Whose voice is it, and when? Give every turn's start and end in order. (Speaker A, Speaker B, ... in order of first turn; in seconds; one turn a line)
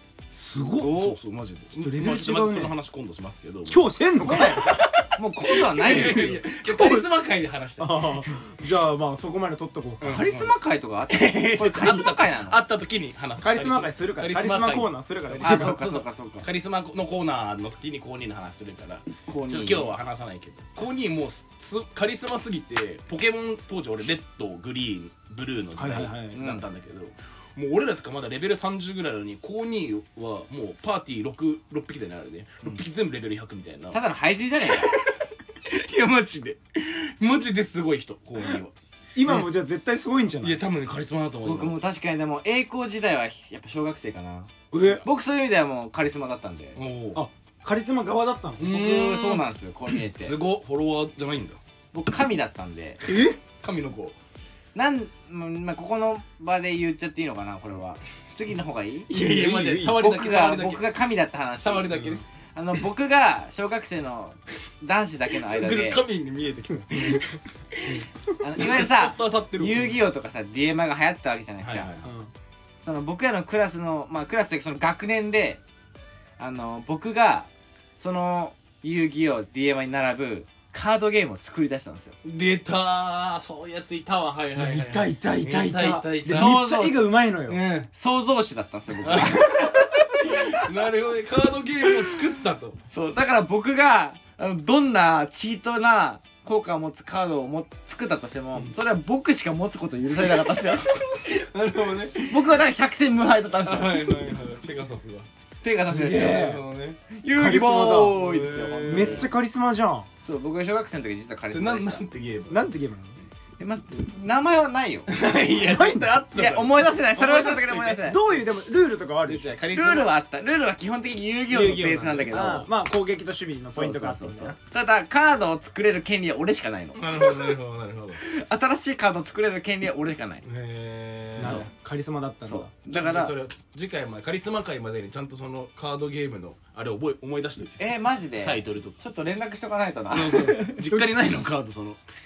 Speaker A: 0.3-1.1
Speaker B: 0.8-1.1
Speaker C: 0.8-8.3
Speaker A: 1.8-2.7
Speaker A: 3.7-5.0
Speaker B: 4.2-6.4
Speaker A: 5.8-7.1
Speaker A: 7.8-10.2
Speaker C: 10.0-10.5
Speaker B: 10.0-12.6
Speaker C: 11.1-34.0
Speaker A: 13.4-15.8
Speaker B: 15.4-16.5
Speaker B: 19.3-19.9
Speaker A: 25.8-26.4
Speaker B: 26.3-26.6
Speaker B: 33.9-34.9
Speaker C: 34.6-39.5
Speaker A: 39.1-40.6
Speaker C: 40.4-41.8
Speaker B: 41.4-46.8
Speaker A: 44.7-45.0
Speaker C: 44.7-45.0
Speaker C: 46.8-47.2
Speaker A: 47.1-48.8
Speaker C: 48.6-51.6
Speaker B: 48.6-50.4
Speaker B: 51.9-53.0
Speaker C: 53.0-54.1
Speaker A: 53.1-53.3
Speaker B: 54.7-59.2
Speaker C: 59.1-60.9
Speaker A: 59.1-60.0
Speaker B: 59.8-66.0
Speaker C: 61.6-62.2
Speaker C: 65.4-68.0
Speaker A: 66.9-67.2
Speaker B: 68.4-71.9
Speaker C: 68.5-70.0
Speaker C: 71.6-72.1
Speaker A: 72.0-72.3
Speaker B: 72.8-75.6
Speaker B: 76.4-82.2
Speaker C: 82.2-86.6
Speaker A: 84.5-87.6
Speaker B: 86.3-87.1
Speaker C: 87.5-87.9
Speaker B: 87.9-90.7
Speaker C: 89.0-92.8
Speaker B: 92.9-101.0
Speaker C: 100.3-102.5
Speaker B: 102.2-104.1
Speaker C: 103.6-105.3
Speaker B: 105.6-106.5
Speaker A: 105.7-106.6
Speaker C: 106.1-107.1
Speaker B: 107.1-109.3
Speaker A: 107.3-108.2
Speaker C: 107.8-109.3
Speaker A: 108.9-110.1
Speaker B: 110.2-112.0
Speaker C: 111.5-112.7
Speaker A: 112.5-113.2
Speaker B: 113.6-115.1
Speaker C: 115.1-118.4
Speaker A: 115.6-116.2
Speaker B: 116.3-118.2
Speaker A: 117.9-119.5
Speaker C: 119.3-120.1
Speaker B: 119.7-122.7
Speaker C: 121.5-122.5
Speaker A: 122.3-124.5
Speaker B: 123.7-127.5
Speaker C: 126.9-128.2
Speaker B: 128.2-130.4
Speaker C: 130.4-131.7
Speaker A: 131.4-132.7
Speaker B: 131.4-131.7
Speaker B: 132.4-133.3
Speaker C: 132.9-139.0
Speaker B: 137.8-140.8
Speaker C: 140.1-142.0
Speaker A: 140.8-141.2